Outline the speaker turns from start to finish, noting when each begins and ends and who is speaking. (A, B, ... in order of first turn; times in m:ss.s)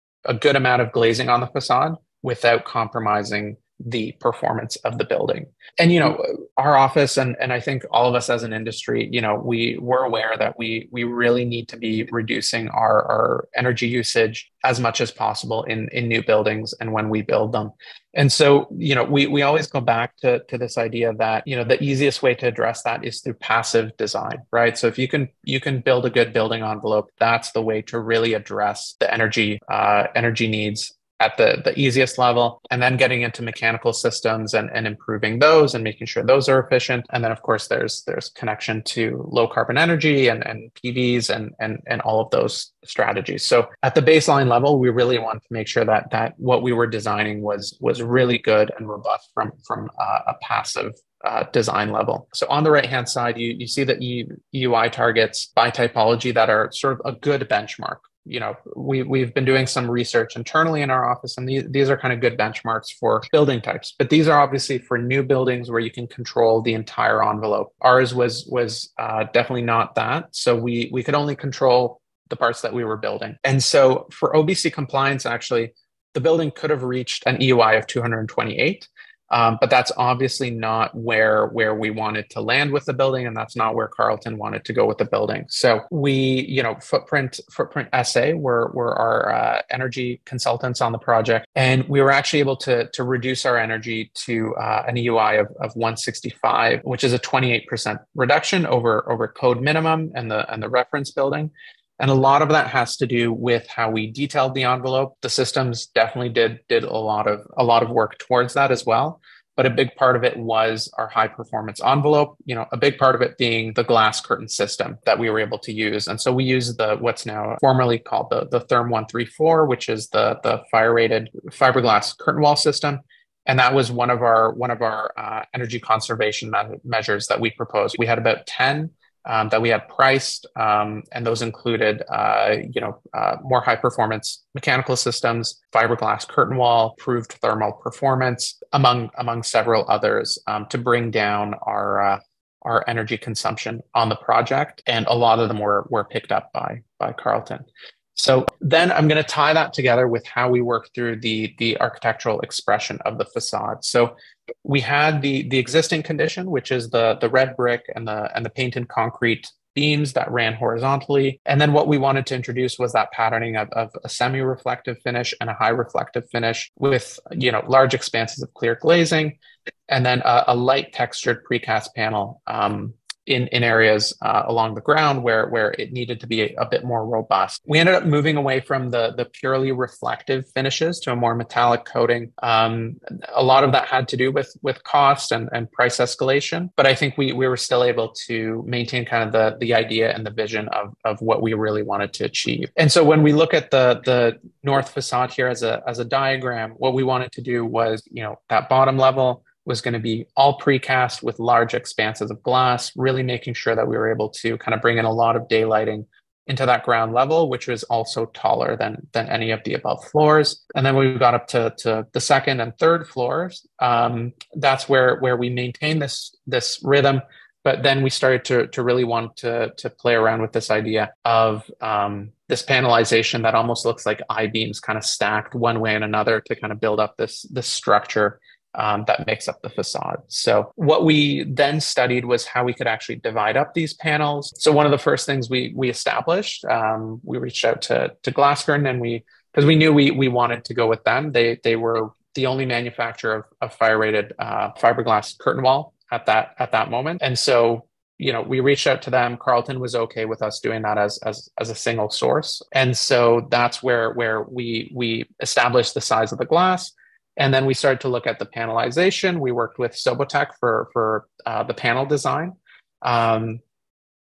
0:00.2-2:34.1 A
2:34.6-2:49.4 A
2:49.9-4:23.6 A